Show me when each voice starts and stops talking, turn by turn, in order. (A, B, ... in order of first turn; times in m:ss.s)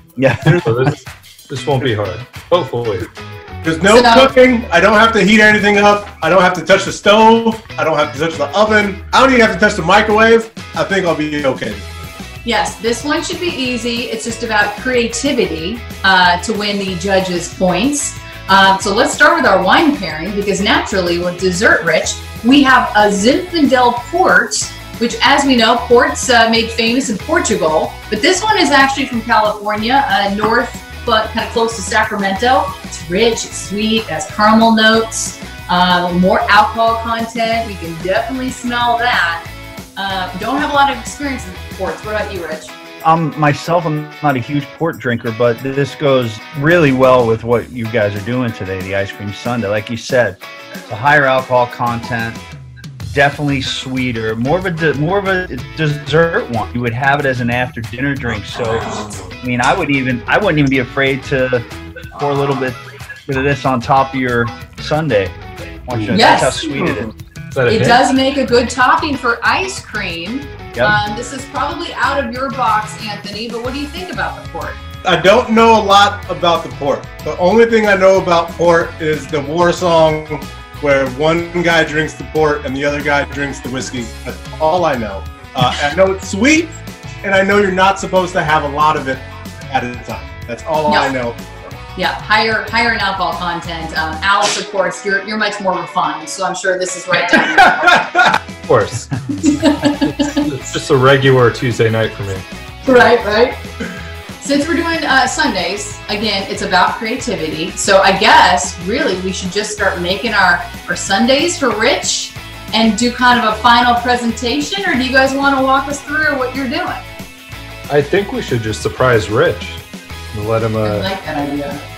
0:00.2-0:00.8 A
0:00.6-0:03.1 B
0:03.6-0:11.9 C
0:03.9-0:04.3 D
0:12.4-0:39.5 D
0:40.0-0:42.7 D
0:43.0-0:52.4 A
0:53.1-1:05.4 A
1:05.9-1:07.1 A
1:05.9-1:06.3 B
1:06.1-1:06.8 D
1:07.5-1:08.0 B
1:07.7-1:14.8 D
1:15.0-1:31.4 C
1:30.9-1:31.1 D
1:32.0-1:37.9 D
1:37.5-1:38.4 C
1:38.7-1:39.1 B
1:39.4-1:40.4 D
1:39.8-1:42.4 B
1:42.8-1:43.6 D
1:44.4-1:57.0 D
1:57.9-2:01.1 B
2:00.8-2:01.8 D